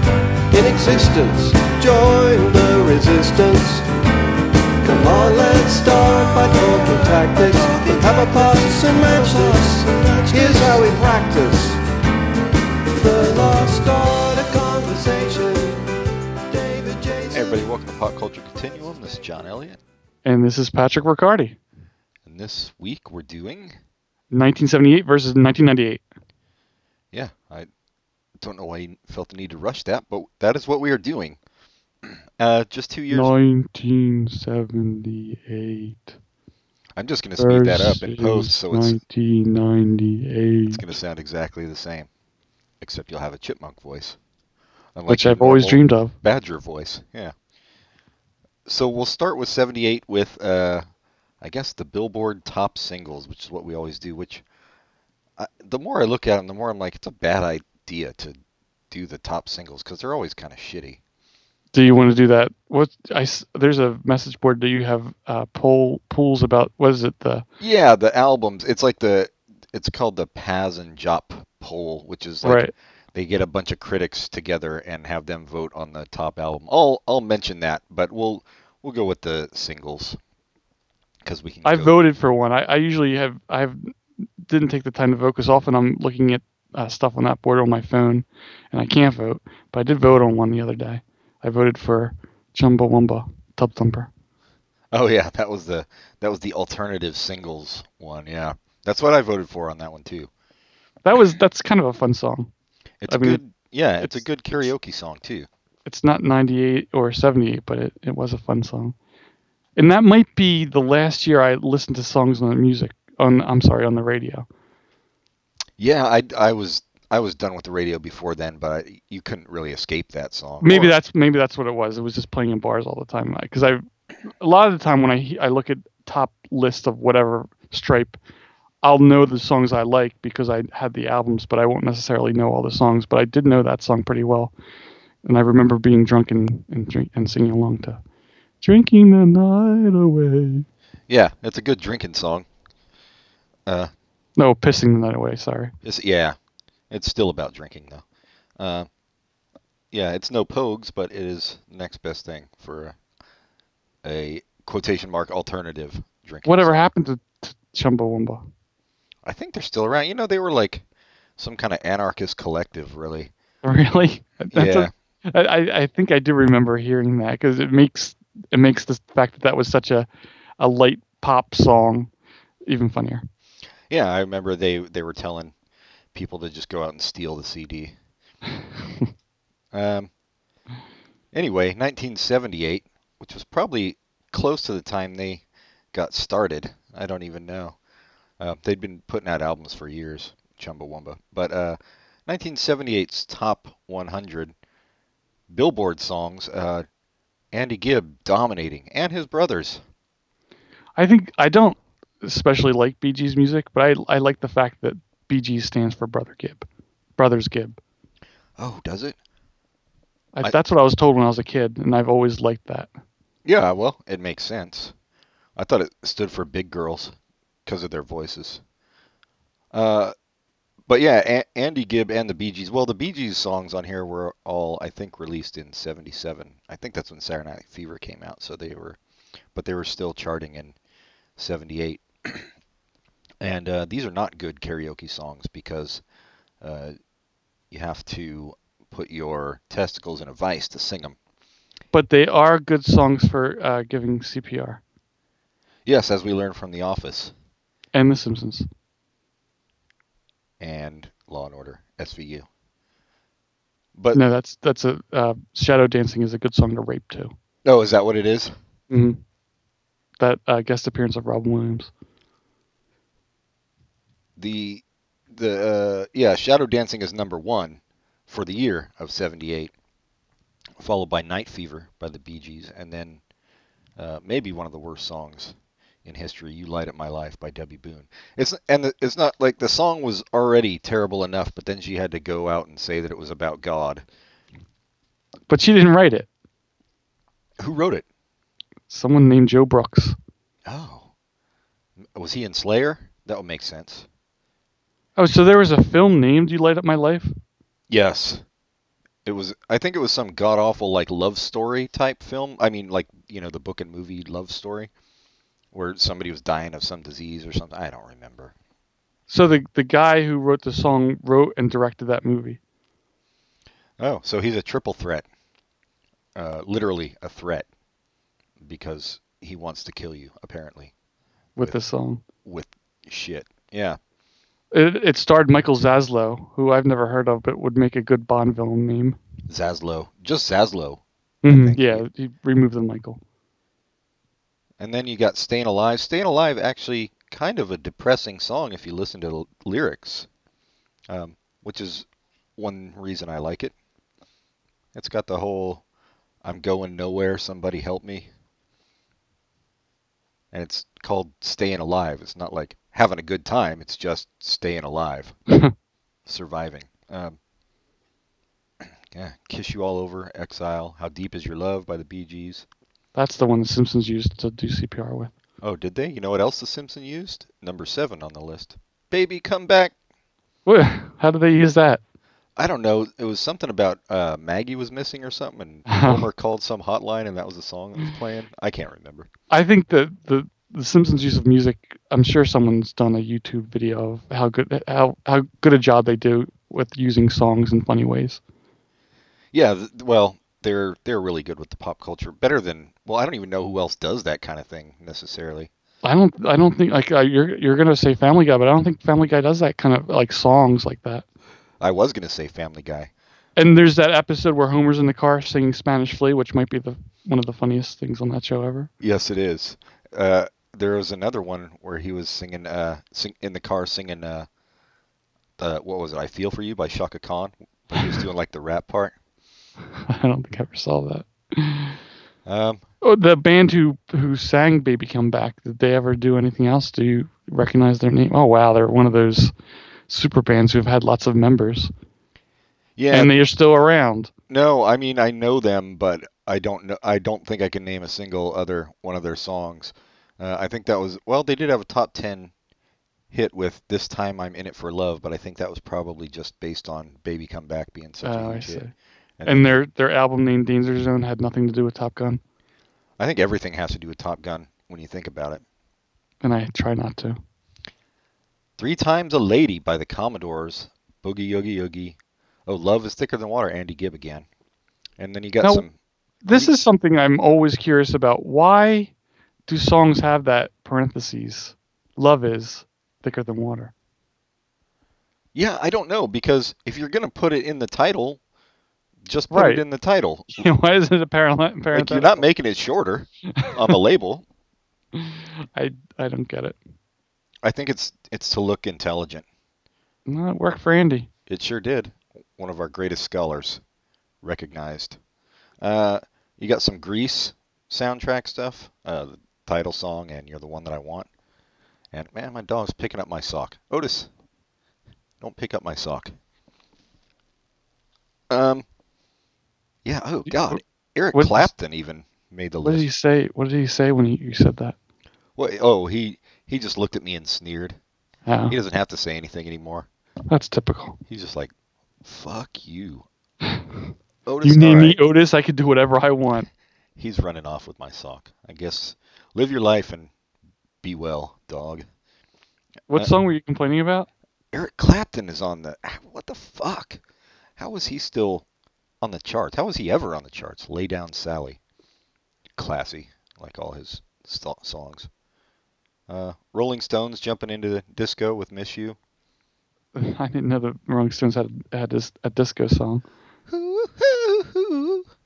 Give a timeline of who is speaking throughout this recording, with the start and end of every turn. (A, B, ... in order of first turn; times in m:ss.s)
0:00.5-0:03.9 A
0:04.8-0:11.8 A
0:12.9-0:15.9 A
0:16.5-0:17.6 A
0:17.3-0:19.8 B
0:20.2-0:21.6 C
0:22.2-0:23.8 B
0:24.3-0:26.0 C
0:27.1-0:27.7 B
0:28.4-0:31.4 B
0:32.0-0:33.3 B
0:33.1-0:36.2 C
0:37.0-0:39.0 B
0:37.4-0:40.9 C
0:40.7-0:42.1 B
0:42.8-0:44.2 B
0:45.0-0:47.3 B
0:45.1-0:46.2 C
0:48.7-0:50.8 B
0:51.4-0:54.4 B
0:55.4-0:58.4 B
0:58.9-1:01.0 B
1:01.7-1:07.5 C
1:07.6-1:20.2 B
1:12.4-1:12.7 C
1:21.2-1:22.0 B
1:21.6-1:34.1 C
1:34.9-1:40.3 B
1:41.0-1:42.5 C
1:43.0-1:45.5 B
1:43.1-1:43.4 C
1:45.9-1:49.0 C
1:49.8-1:54.5 C
1:55.8-2:01.0 B
2:00.6-2:03.8 C
2:04.4-2:08.2 C
2:08.8-2:14.5 C
2:15.2-2:18.0 C
2:18.6-2:20.7 C
2:21.1-2:22.5 B
2:23.7-2:23.9 B
2:24.4-2:25.7 C
2:25.8-2:26.4 B
2:26.9-2:28.0 B
2:28.6-2:28.9 B
2:29.9-2:33.0 B
2:34.0-2:36.9 B
2:36.5-2:38.4 C
2:39.2-2:40.8 B
2:41.4-2:43.3 B
2:43.6-2:50.1 C
2:44.5-2:44.9 B
2:50.6-2:52.1 C
2:52.7-2:53.3 C
2:53.9-2:55.5 B
2:56.1-2:58.0 B
2:59.7-3:00.1 B
3:01.3-3:07.8 B
3:08.4-3:14.5 B
3:15.5-3:16.9 B
3:17.5-3:19.8 B
3:21.0-3:27.8 C
3:28.6-3:29.2 B
3:30.3-3:32.9 C
3:33.4-3:34.9 B
3:35.6-3:37.1 B
3:37.7-3:38.6 B
3:39.7-3:40.1 B
3:40.9-3:49.0 B
3:49.5-3:50.8 B
3:51.4-3:52.5 B
3:53.4-3:56.0 B
3:56.6-3:57.0 B
3:57.7-4:01.2 B
4:01.9-4:04.8 C
4:05.9-4:07.3 B
4:07.9-4:08.7 C
4:10.6-4:12.5 B
4:14.0-4:14.2 B
4:14.1-4:17.3 C
4:17.6-4:18.5 B
4:18.9-4:19.2 C
4:20.2-4:21.9 C
4:24.4-4:29.7 B
4:30.8-4:33.2 B
4:34.0-4:44.0 B
4:45.5-4:46.3 C
4:47.6-4:48.0 B
4:48.9-4:50.2 C
4:50.7-4:51.1 B
4:52.0-4:54.1 B
4:55.2-4:57.3 C
4:57.9-4:58.4 B
4:59.2-5:04.9 B
5:05.7-5:08.5 B
5:09.3-5:12.6 C
5:14.0-5:15.3 B
5:16.4-5:17.7 B
5:18.6-5:20.9 B
5:21.6-5:22.2 C
5:22.4-5:24.0 B
5:24.7-5:29.2 C
5:29.5-5:32.0 B
5:31.4-5:33.2 C
5:34.8-5:40.3 B
5:41.1-5:42.1 B
5:42.6-5:43.7 B
5:44.9-5:45.8 B
5:46.4-5:48.3 B
5:50.5-5:55.4 B
5:56.3-5:57.4 B
5:59.1-6:02.7 B
6:03.2-6:05.3 C
6:05.6-6:09.9 B
6:10.7-6:12.0 C
6:12.6-6:19.3 B
6:15.9-6:16.2 C
6:19.5-6:28.4 C
6:29.5-6:35.7 B
6:36.0-6:41.2 C
6:41.8-6:43.1 B
6:43.6-6:48.9 C
6:49.0-6:54.5 B
6:55.6-6:59.2 B
7:00.1-7:02.0 C
7:02.5-7:02.8 B
7:03.0-7:09.5 C
7:10.1-7:11.9 C
7:13.0-7:13.3 B
7:13.1-7:14.3 C
7:14.5-7:22.5 B
7:23.3-7:28.8 B
7:28.2-7:28.9 C
7:29.4-7:29.8 B
7:29.5-7:32.4 C
7:33.2-7:35.6 B
7:36.4-7:37.4 C
7:38.8-7:44.5 B
7:45.2-7:45.9 B
7:46.4-7:49.1 C
7:49.7-7:53.9 C
7:55.5-7:58.4 B
7:59.2-8:00.5 B
7:59.5-7:59.8 C
8:00.5-8:02.5 C
8:02.0-8:04.4 B
8:03.5-8:03.9 C
8:05.2-8:06.8 C
8:07.6-8:09.4 B
8:10.3-8:11.3 C
8:11.5-8:13.8 B
8:14.4-8:15.2 B
8:15.8-8:21.3 B
8:22.1-8:24.3 B
8:25.4-8:26.3 B
8:28.5-8:28.8 B
8:30.0-8:33.1 B
8:30.5-8:30.8 C
8:31.3-8:31.7 C
8:32.8-8:35.0 C
8:35.6-8:38.0 B
8:38.5-8:38.8 C
8:38.7-8:40.1 B
8:40.5-8:41.2 C
8:41.3-8:41.7 B
8:42.2-8:43.3 B
8:44.5-8:45.2 B
8:44.6-8:46.7 C
8:47.2-8:50.3 B
8:51.0-8:52.1 B
8:53.1-8:54.3 C
8:54.7-8:57.2 B
8:57.8-8:58.6 B
8:59.2-9:01.8 B
9:02.8-9:05.3 B
9:06.3-9:09.2 B
9:10.2-9:13.2 C
9:13.7-9:15.3 B